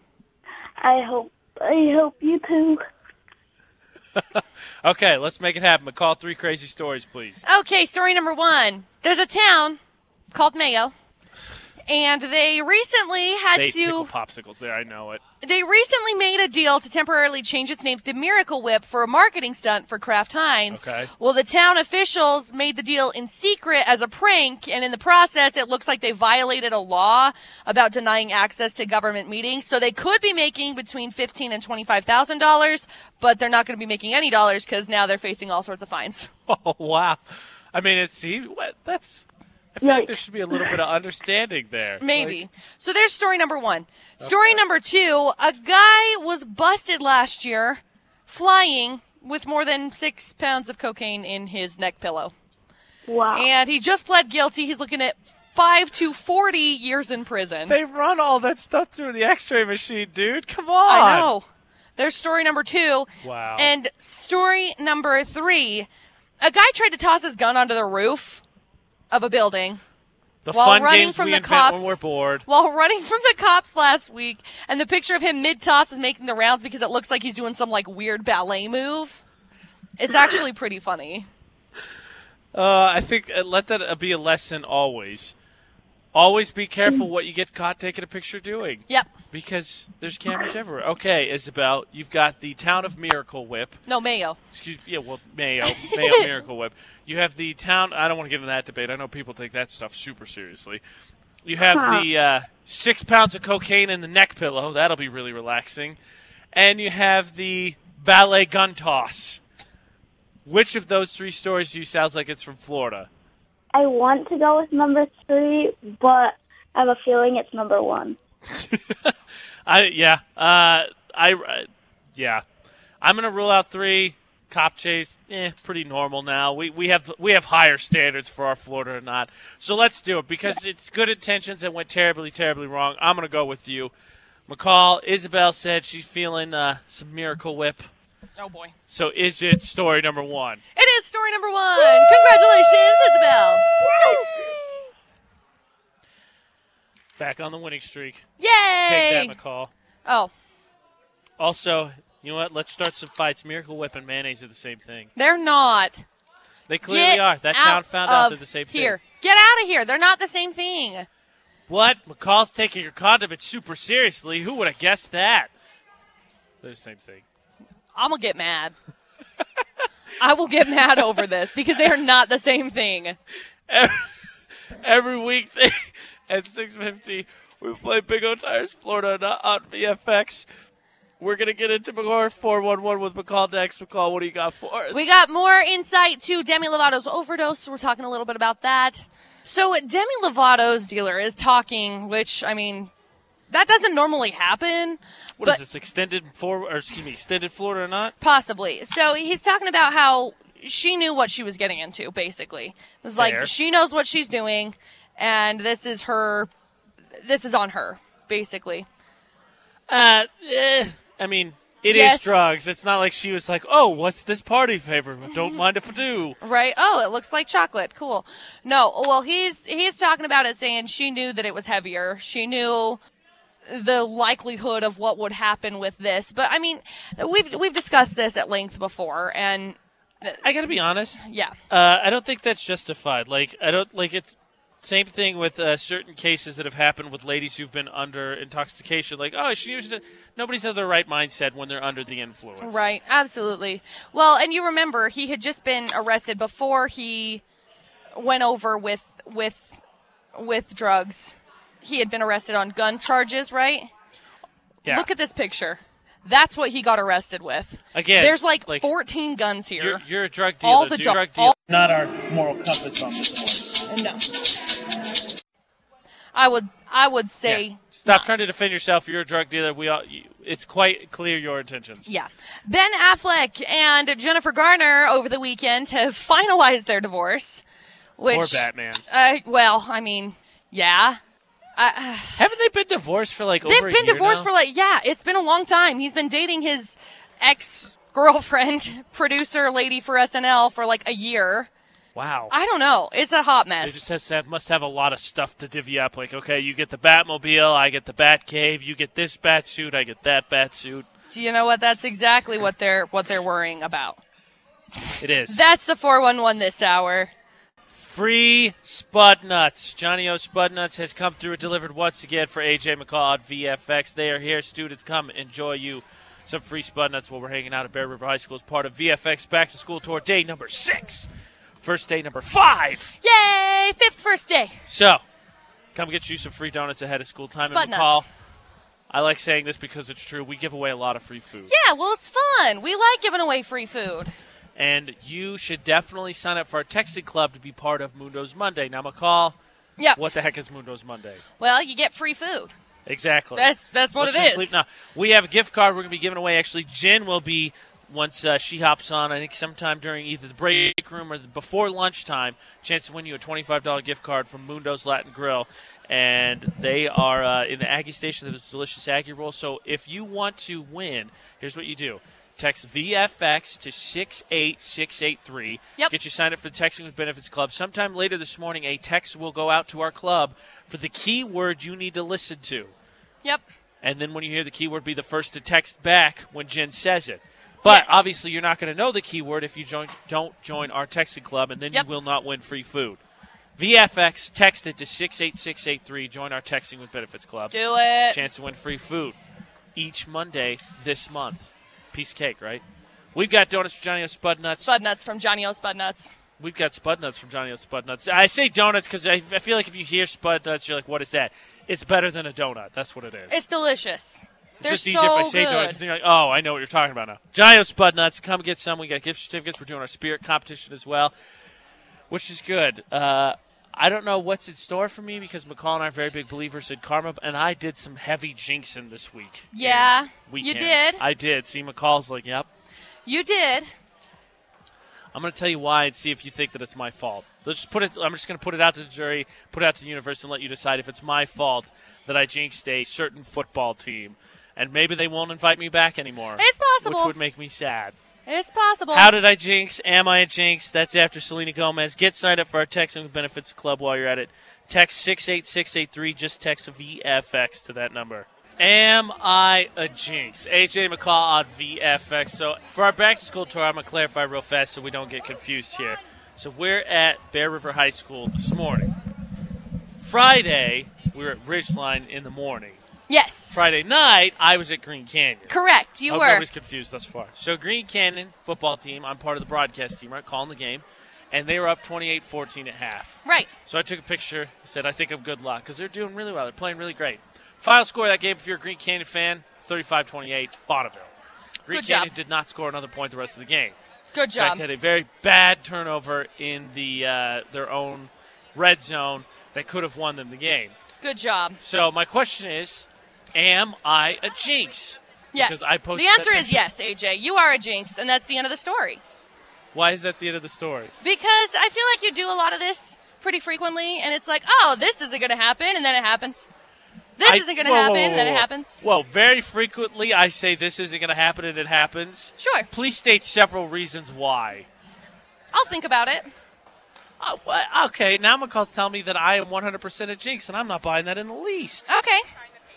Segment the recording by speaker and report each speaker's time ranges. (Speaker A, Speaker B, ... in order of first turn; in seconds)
Speaker A: 0.8-2.8, 39.8-40.7, 53.1-53.5, 101.7-102.0, 113.7-118.2
Speaker B: 4.2-7.4, 13.5-15.2, 20.7-21.1, 36.5-37.2, 37.7-42.4, 44.2-44.6, 57.7-61.3, 63.2-63.7, 70.4-72.4, 82.5-85.3, 86.1-93.8, 94.5-100.8, 101.4-106.0, 106.5-109.4, 110.4-113.1, 118.5-119.1, 119.7-122.4, 123.0-133.9, 134.5-137.9, 138.9-140.6, 143.7-144.4, 147.2-148.2, 148.8-149.7, 151.4-155.1, 156.7-159.0, 161.7-165.5, 166.6-167.2, 173.7-174.1, 174.7-180.5, 181.2-185.1, 195.4-198.1, 203.2-203.5, 209.9-216.3, 230.4-242.8, 257.9-258.9, 259.8-263.9, 267.4-272.1, 278.3-279.0, 282.3-284.5, 292.1-292.5, 293.8-301.1, 305.2-305.6, 307.9-321.3, 321.8-323.1, 324.9-325.2, 325.9-328.2, 329.1-331.7, 334.8-339.6, 340.1-341.4, 343.1-372.9, 374.0-383.2, 383.8-387.7, 388.3-389.4, 389.9-395.0, 396.6-403.6, 404.8-411.3, 412.3-422.7, 425.3-438.1, 439.1-459.1, 460.2-463.0, 463.7-465.7, 466.3-481.3, 481.9-483.9, 484.6-490.9, 491.8-496.8, 499.9-501.1, 507.4-514.9, 517.4-522.1
Speaker C: 7.4-9.8, 10.3-10.9, 11.9-14.1, 15.4-36.3, 42.0-52.3, 53.3-57.8, 60.9-61.4, 62.0-65.9, 66.4-68.4, 69.1-69.8, 70.5-79.2, 80.0-81.3, 93.9-94.4, 95.7-96.2, 138.4-138.7, 140.7-144.4, 148.4-149.3, 150.1-150.3, 155.2-156.0, 156.8-161.1, 167.9-168.7, 170.2-173.2, 184.9-192.9, 193.5-195.6, 198.2-206.5, 207.2-208.8, 211.9-212.4, 215.3-215.6, 216.4-223.0, 223.7-230.4, 231.2-231.6, 242.6-247.4, 248.1-249.8, 250.3-253.9, 254.8-260.0, 260.6-261.6, 263.9-264.3, 266.3-268.5, 272.1-277.6, 278.2-281.2, 281.8-282.4, 283.6-291.7, 292.5-294.1, 301.3-304.2, 305.5-307.3, 323.2-324.8, 327.7-328.2, 331.7-334.3, 341.6-342.7, 343.6-344.7, 377.8-378.2, 387.7-388.4, 394.8-396.3, 403.5-406.0, 419.7-421.2, 423.2-423.9, 436.6-437.3, 438.5-439.3, 463.3-463.8, 465.7-466.6, 473.4-473.7, 481.9-482.3, 484.3-484.8, 491.2-491.8, 495.5-499.2, 501.2-506.7, 507.4-509.0, 512.6-512.9, 515.7-516.5, 522.1-522.4